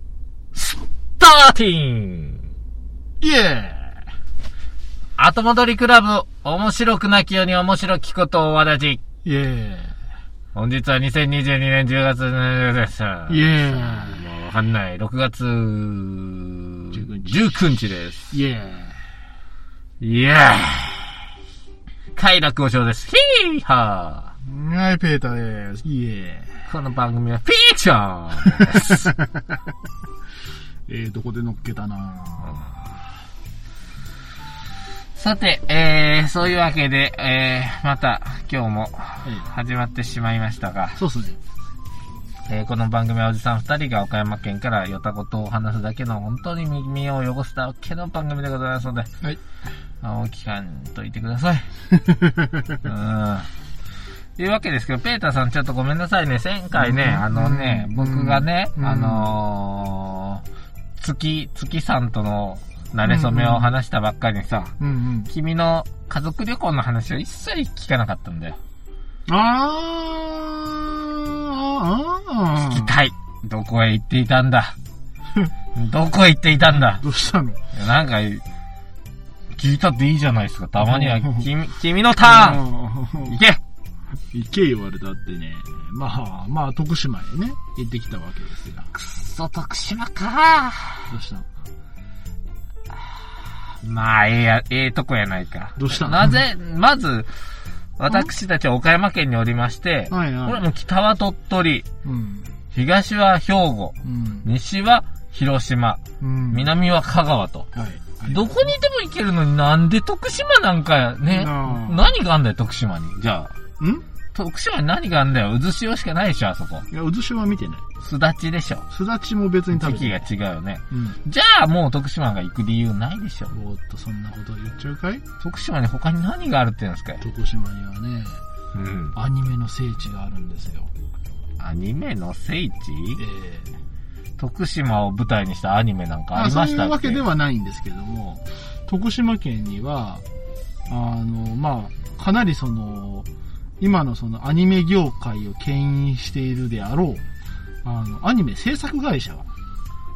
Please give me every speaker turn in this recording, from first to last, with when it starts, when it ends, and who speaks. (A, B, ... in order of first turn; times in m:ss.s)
0:00.5-0:02.4 A
0:03.2-0:04.0 B
0:05.2-0:09.0 A
0:09.2-0:09.9 B
0:10.5-0:18.4 A
0:13.3-0:14.2 B
0:16.9-0:17.6 B
0:18.3-0:18.9 B
0:20.0-0:21.1 A
0:22.1-0:24.3 A
0:24.4-0:26.6 B
0:26.7-0:29.1 A
0:28.5-0:29.4 B
0:30.9-0:32.7 B
0:35.1-0:41.0 A
0:39.2-0:39.5 B
0:41.0-0:41.4 B
0:42.4-0:49.1 A
0:50.0-0:51.7 A
0:52.0-0:52.8 B
0:52.8-0:53.5 A
0:54.4-1:00.4 A
0:56.8-0:59.3 B
1:01.0-1:04.7 A
1:03.0-1:03.7 B
1:04.8-1:05.3 B
1:05.3-1:08.6 A
1:09.3-1:12.9 B
1:12.6-1:14.8 A
1:15.7-1:17.0 A
1:16.9-1:17.6 B
1:17.7-1:18.4 A
1:19.5-1:22.6 A
1:20.8-1:21.5 B
1:22.2-1:23.4 B
1:23.3-1:23.6 A
1:24.3-1:28.9 B
1:28.9-1:31.1 A
1:31.1-1:31.4 B
1:33.7-1:41.9 A
1:35.8-1:36.4 B
1:40.1-1:40.6 B
1:42.0-1:42.5 B
1:42.7-1:47.7 A
1:44.0-1:44.5 B
1:46.2-1:46.7 B
1:47.7-1:48.7 B
1:48.2-1:53.5 A
1:51.3-1:52.1 B
1:54.3-1:56.9 A
1:56.9-1:57.8 B
1:58.0-1:58.8 A
1:58.9-2:00.2 B
1:59.7-2:03.5 A
2:00.9-2:01.2 B
2:03.5-2:05.2 B
2:05.4-2:07.2 A
2:07.2-2:08.4 B
2:08.7-2:09.1 A
2:09.1-2:10.9 B
2:11.6-2:13.2 A
2:13.2-2:13.7 B
2:14.4-2:17.2 A
2:16.3-2:20.2 B
2:20.9-2:23.3 B
2:23.8-2:27.2 B
2:27.8-2:29.5 B